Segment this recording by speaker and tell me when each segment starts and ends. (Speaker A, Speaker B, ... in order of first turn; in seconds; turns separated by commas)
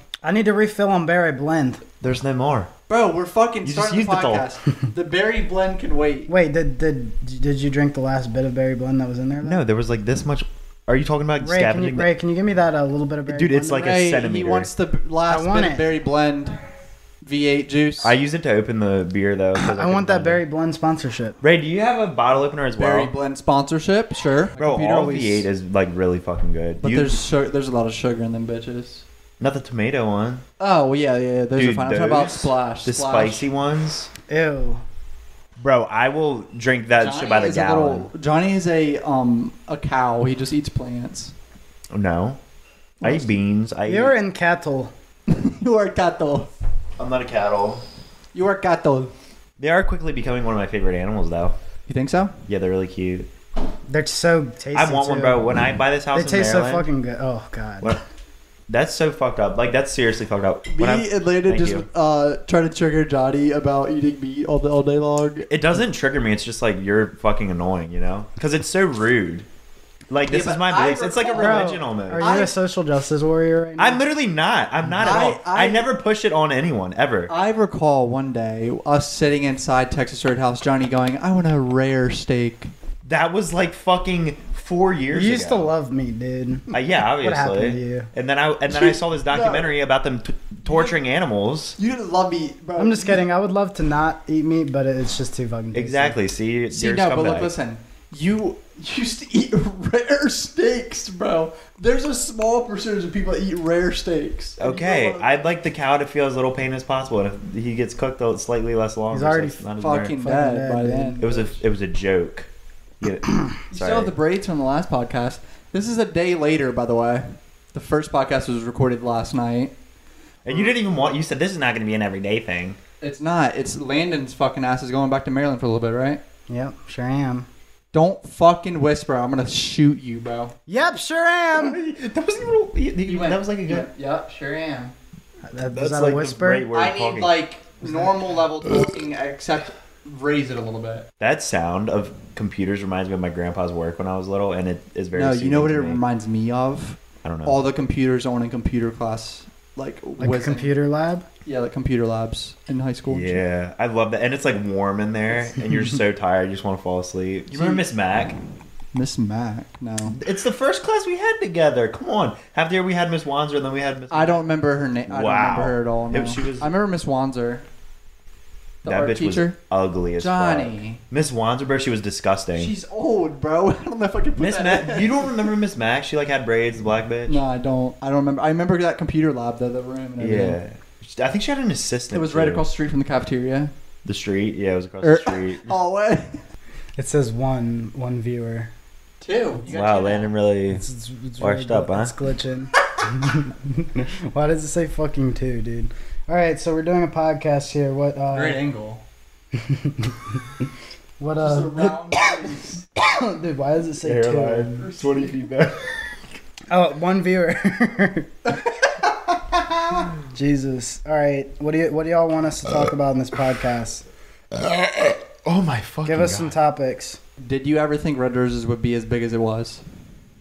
Speaker A: 0.2-1.8, Speaker B: 2.0-2.7, Speaker C: 2.9-6.3, Speaker B: 3.6-4.5, Speaker A: 6.3-9.7, Speaker B: 9.4-12.1, Speaker A: 11.4-13.9, Speaker B: 13.3-14.7, Speaker C: 13.8-16.6, Speaker A: 15.3-15.9, Speaker C: 17.2-18.1, Speaker B: 18.0-20.4, Speaker A: 19.6-21.4, Speaker B: 21.4-23.1, Speaker C: 22.8-25.5, Speaker B: 24.6-27.2, Speaker C: 26.8-29.0, Speaker B: 29.4-30.4, Speaker C: 30.6-33.5, Speaker B: 31.5-34.1, Speaker A: 34.3-34.8, Speaker B: 35.6-38.1, Speaker C: 37.0-41.3, Speaker B: 41.9-42.4, Speaker C: 43.0-43.3, Speaker B: 43.0-44.1, Speaker A: 43.9-44.9, Speaker C: 45.3-46.5, Speaker B: 47.0-47.8, Speaker C: 48.3-49.1, Speaker B: 49.6-51.5, Speaker C: 51.9-52.4, Speaker B: 52.5-53.3, Speaker A: 53.9-55.6, Speaker B: 54.7-56.9, Speaker A: 56.1-58.0, Speaker B: 58.7-61.9, Speaker C: 60.7-65.5, Speaker B: 65.5-69.5, Speaker B: 70.1-72.4, Speaker C: 70.3-72.5, Speaker A: 71.3-74.0, Speaker B: 73.8-77.3, Speaker C: 74.9-75.9, Speaker C: 77.3-82.7, Speaker B: 83.0-85.7, Speaker A: 85.1-88.1, Speaker B: 86.7-91.8, Speaker C: 88.7-89.7, Speaker C: 90.7-91.0, Speaker C: 91.8-93.2, Speaker A: 92.8-96.2, Speaker B: 95.7-97.5, Speaker C: 96.7-105.6, Speaker B: 104.6-110.2, Speaker A: 109.1-109.7, Speaker C: 109.8-111.2, Speaker A: 110.2-111.6, Speaker B: 111.2-112.5, Speaker B: 113.0-114.1, Speaker C: 113.7-119.7, Speaker B: 120.5-122.8, Speaker C: 123.0-126.2, Speaker A: 126.5-127.5, Speaker C: 127.9-130.6, Speaker A: 130.7-131.8, Speaker B: 131.5-133.9, Speaker C: 133.0-134.9, Speaker A: 135.5-136.7, Speaker B: 135.7-137.4, Speaker C: 136.7-141.1, Speaker A: 137.8-138.2, Speaker B: 141.2-146.0, Speaker C: 145.2-150.7, Speaker B: 147.2-147.6, Speaker A: 150.2-151.3, Speaker C: 151.5-153.4, Speaker B: 153.1-158.4, Speaker C: 157.5-157.8, Speaker C: 158.9-160.2, Speaker B: 160.2-164.5, Speaker C: 164.1-167.7, Speaker B: 165.1-166.7, Speaker C: 168.8-169.6, Speaker B: 168.8-172.7, Speaker C: 170.2-171.0, Speaker C: 172.6-175.3, Speaker B: 174.4-177.4, Speaker C: 177.3-180.6, Speaker B: 180.2-182.7, Speaker C: 182.1-183.7, Speaker B: 184.1-185.8, Speaker C: 185.0-186.4, Speaker A: 187.0-188.7, Speaker C: 189.2-190.3, Speaker B: 189.7-190.8, Speaker A: 190.7-198.6, Speaker B: 191.4-192.1, Speaker C: 198.3-199.0, Speaker A: 199.5-200.4, Speaker A: 201.2-202.2, Speaker C: 201.4-202.8, Speaker A: 203.0-204.8, Speaker B: 204.0-206.0, Speaker C: 204.8-205.3, Speaker A: 206.7-208.3, Speaker C: 208.5-210.1, Speaker A: 210.3-214.1, Speaker B: 214.6-216.6, Speaker A: 216.1-217.2, Speaker C: 217.4-219.8